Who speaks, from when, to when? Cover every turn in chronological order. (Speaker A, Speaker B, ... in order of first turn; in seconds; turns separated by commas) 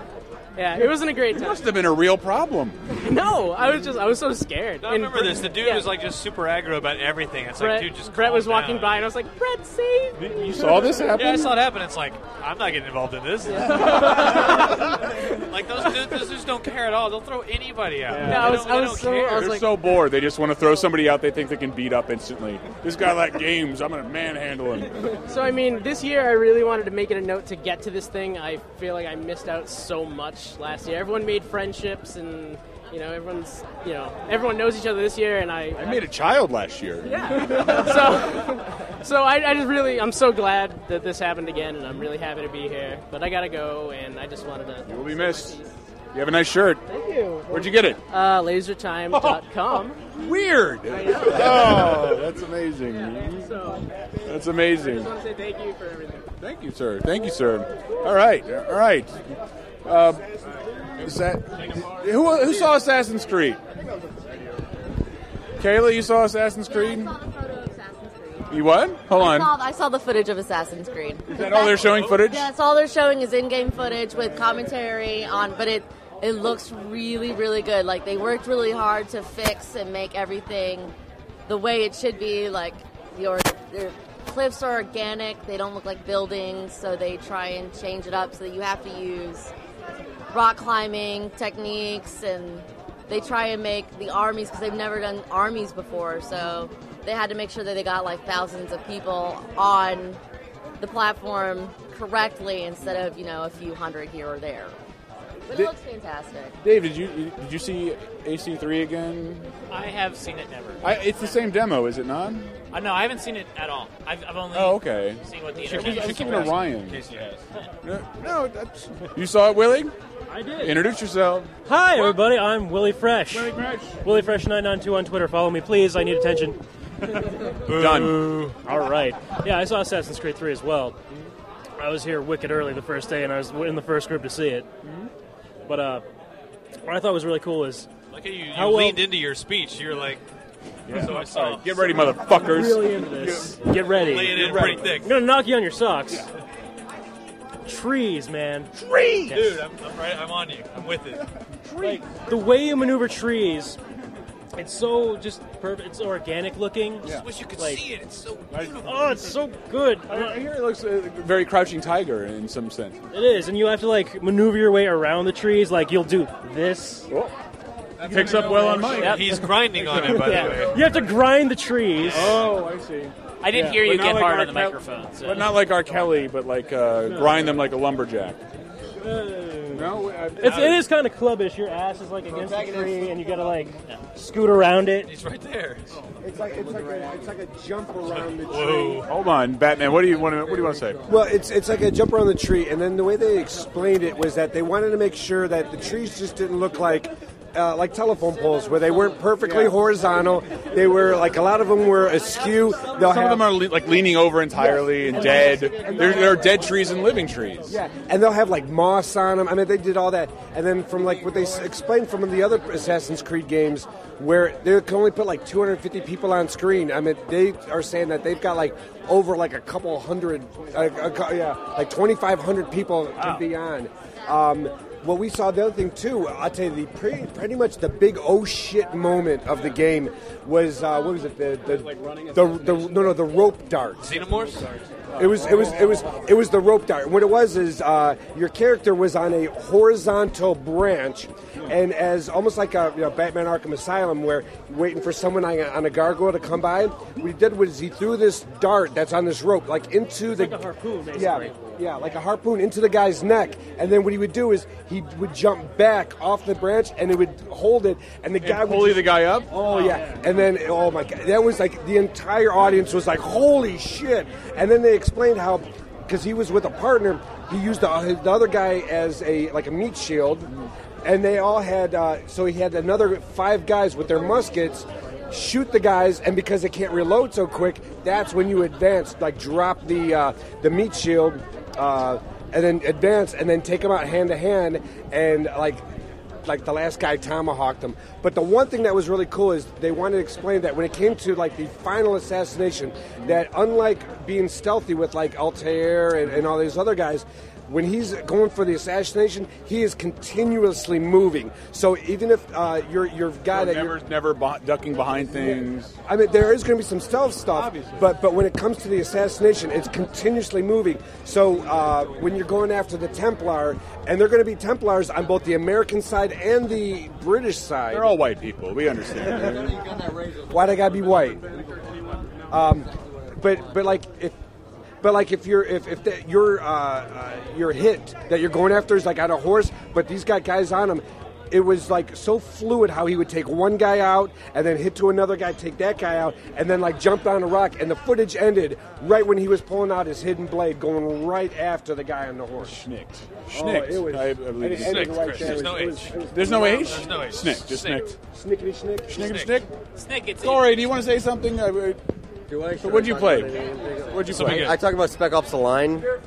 Speaker A: 0.6-1.8, Speaker B: 1.3-2.8, Speaker A: 2.9-5.9, Speaker C: 4.8-9.0, Speaker A: 7.6-10.8, Speaker B: 10.2-11.5, Speaker C: 11.1-19.5, Speaker A: 13.6-14.3, Speaker B: 18.1-18.6, Speaker A: 18.2-19.7, Speaker B: 19.3-25.1, Speaker A: 25.3-36.1, Speaker B: 35.8-38.2, Speaker A: 37.0-45.7, Speaker B: 44.9-45.6, Speaker B: 46.1-46.8, Speaker B: 47.5-48.0, Speaker A: 48.1-50.0, Speaker B: 49.1-53.5, Speaker A: 51.0-52.0, Speaker A: 53.2-53.9, Speaker B: 54.2-55.1, Speaker A: 54.7-56.3, Speaker B: 56.4-59.2, Speaker B: 59.8-60.2, Speaker B: 61.0-63.6, Speaker B: 65.6-67.1, Speaker D: 67.5-68.3, Speaker B: 68.5-69.5, Speaker D: 69.1-80.9, Speaker B: 71.3-72.5, Speaker C: 71.8-72.2, Speaker D: 81.5-89.5, Speaker D: 90.3-100.2, Speaker D: 100.8-104.7, Speaker D: 105.5-106.5, Speaker B: 106.6-109.5, Speaker E: 109.7-110.8, Speaker B: 110.8-112.5, Speaker E: 112.7-116.7, Speaker B: 114.5-117.1, Speaker C: 115.7-117.4, Speaker B: 117.8-119.9, Speaker F: 120.3-120.8, Speaker B: 120.6-121.5, Speaker F: 121.6-126.6, Speaker C: 127.7-128.5, Speaker B: 127.7-128.3, Speaker F: 128.6-131.0, Speaker F: 131.8-134.7, Speaker F: 135.7-136.0, Speaker F: 136.8-137.9, Speaker C: 138.1-140.2, Speaker F: 138.5-139.1, Speaker B: 140.9-143.5, Speaker C: 140.9-141.9, Speaker F: 142.2-146.3, Speaker C: 143.9-145.1, Speaker B: 144.3-144.9, Speaker F: 147.6-148.7, Speaker B: 148.8-149.6, Speaker C: 149.3-151.2, Speaker B: 151.6-152.2, Speaker F: 151.8-153.8, Speaker F: 154.5-157.8, Speaker C: 157.1-159.0, Speaker B: 158.5-158.8, Speaker F: 158.8-160.4, Speaker B: 160.1-163.0, Speaker F: 163.1-167.1, Speaker F: 168.0-172.5, Speaker B: 168.0-169.2, Speaker C: 168.7-170.8, Speaker B: 169.9-170.7, Speaker C: 172.0-172.4, Speaker B: 172.1-173.1, Speaker E: 173.4-175.5, Speaker F: 173.5-173.8, Speaker B: 173.7-178.4, Speaker F: 177.0-177.6, Speaker F: 179.0-185.1, Speaker B: 179.7-180.7, Speaker C: 180.4-180.8, Speaker G: 182.3-183.0, Speaker C: 185.0-185.8, Speaker H: 186.2-188.2, Speaker G: 186.7-187.2, Speaker C: 188.1-189.1, Speaker B: 189.1-191.1, Speaker H: 191.1-203.5, Speaker B: 202.9-207.8, Speaker H: 205.1-206.5, Speaker H: 207.7-234.0, Speaker C: 234.0-234.7, Speaker H: 235.2-250.6, Speaker F: 250.3-251.8, Speaker H: 251.1-270.5, Speaker B: 258.4-259.5, Speaker F: 259.5-260.3, Speaker H: 271.0-285.8, Speaker H: 286.4-304.0, Speaker B: 303.5-305.9, Speaker H: 306.1-318.1, Speaker B: 307.4-308.1, Speaker B: 317.9-319.8, Speaker H: 320.5-321.4, Speaker H: 322.5-324.3, Speaker H: 325.0-342.8, Speaker B: 342.6-345.6, Speaker H: 343.5-347.1, Speaker C: 344.8-348.1, Speaker B: 346.3-348.2, Speaker H: 348.3-349.2, Speaker B: 349.1-349.7, Speaker C: 349.1-349.6, Speaker E: 349.9-350.9, Speaker B: 350.4-352.0, Speaker G: 352.5-356.1, Speaker B: 352.8-354.7, Speaker C: 354.3-354.8